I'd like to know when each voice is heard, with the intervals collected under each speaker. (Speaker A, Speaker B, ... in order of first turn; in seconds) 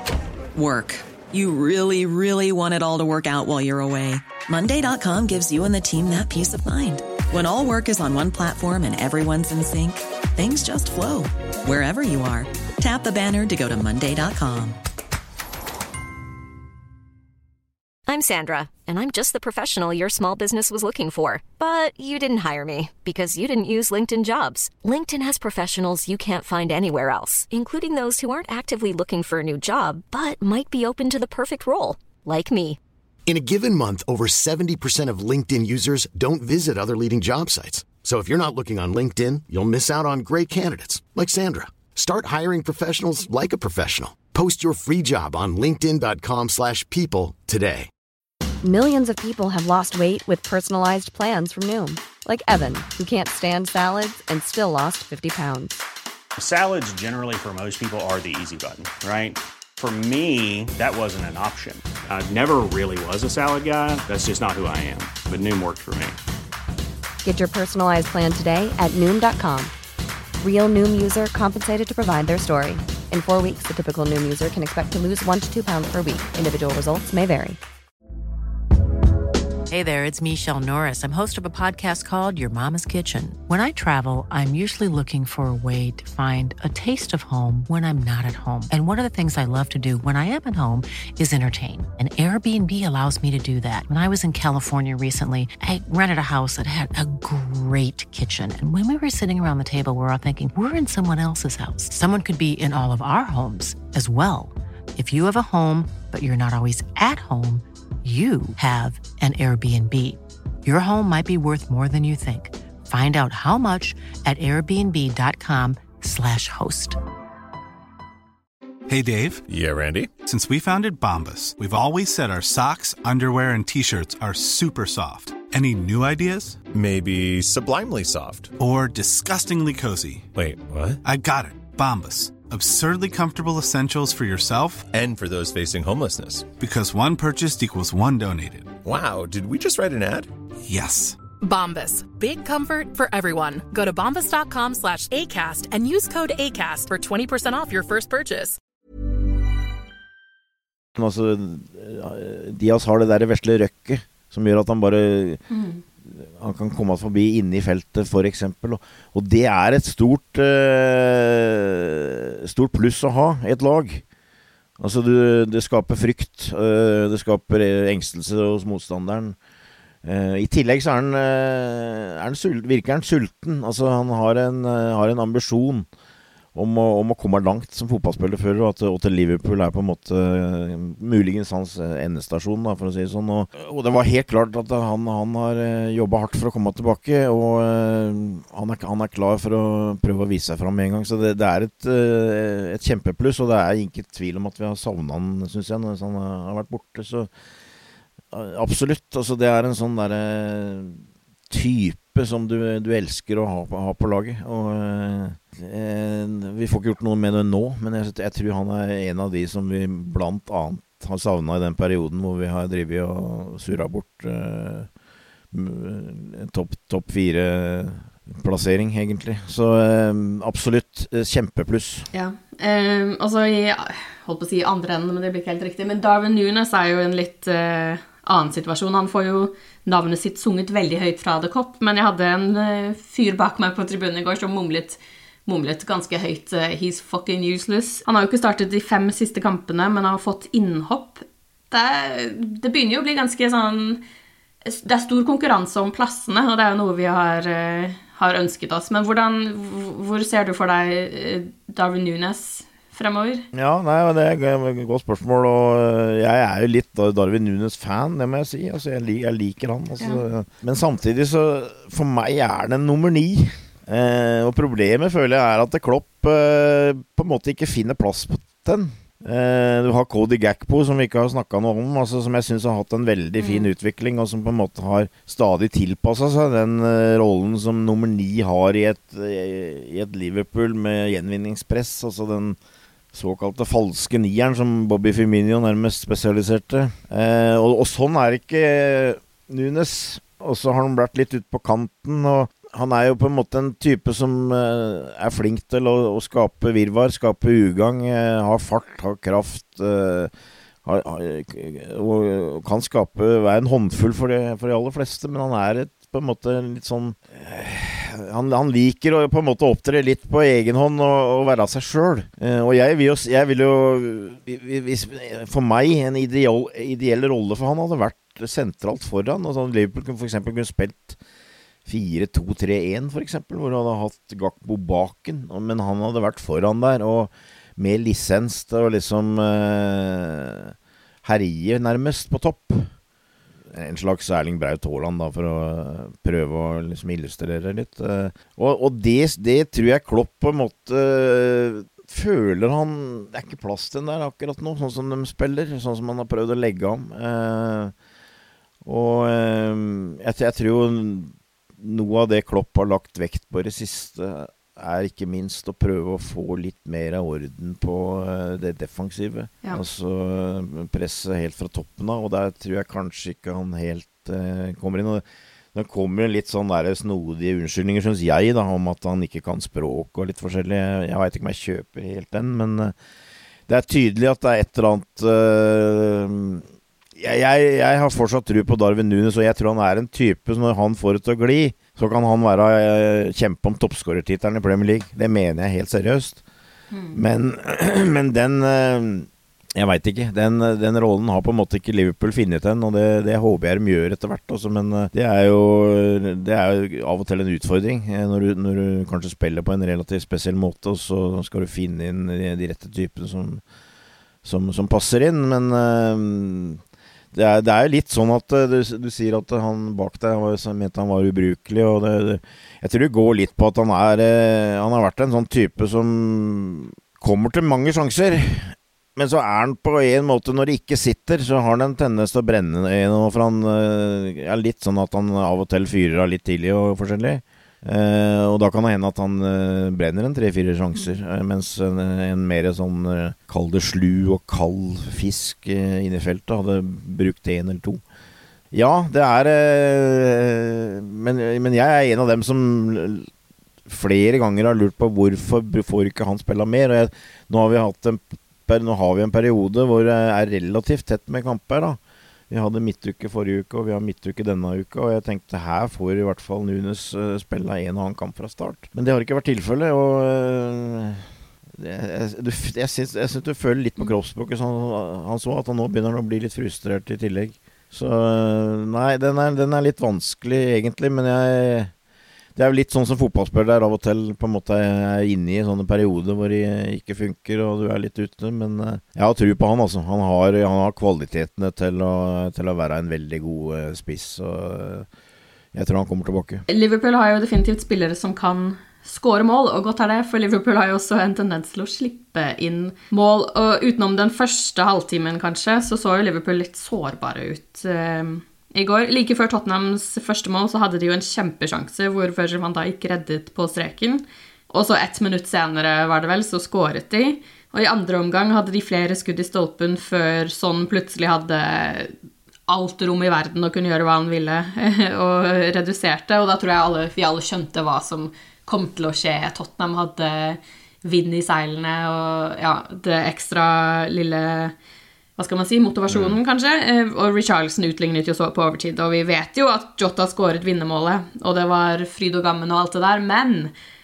Speaker A: 0.5-14.8
Speaker B: 18.1-32.8
Speaker C: 33.3-47.9
Speaker D: 48.6-55.8, 67.2-69.7, 70.4-77.6
Speaker E: 56.4-66.2
Speaker F: 79.7-117.0
Speaker G: 118.9-119.5, 120.2-126.6, 128.6-130.3, 131.0-134.9, 136.6-138.8, 140.7-141.2
Speaker H: 119.5-120.1, 126.7-128.5, 130.3-131.0, 134.9-136.5, 138.8-140.3
Speaker I: 141.4-148.6
Speaker J: 151.0-155.4, 156.1-164.0, 164.8-169.4, 170.0-175.9, 176.5-197.3, 198.3-214.9, 215.5-222.1, 253.5-282.6, 283.1-300.3, 300.8-321.2, 321.9-332.9, 333.7-347.9, 348.8-372.9, 373.7-386.4, 387.1-403.6, 404.4-406.8, 407.3-438.0, 438.7-443.3, 443.9-452.0, 452.5-471.9, 472.6-485.1, 485.7-486.6, 526.1-526.4
Speaker K: 155.5-155.8, 222.1-244.0, 244.7-253.5, 273.4-273.7, 386.9-387.2, 486.7-512.1, 512.7-524.7, 525.4-533.7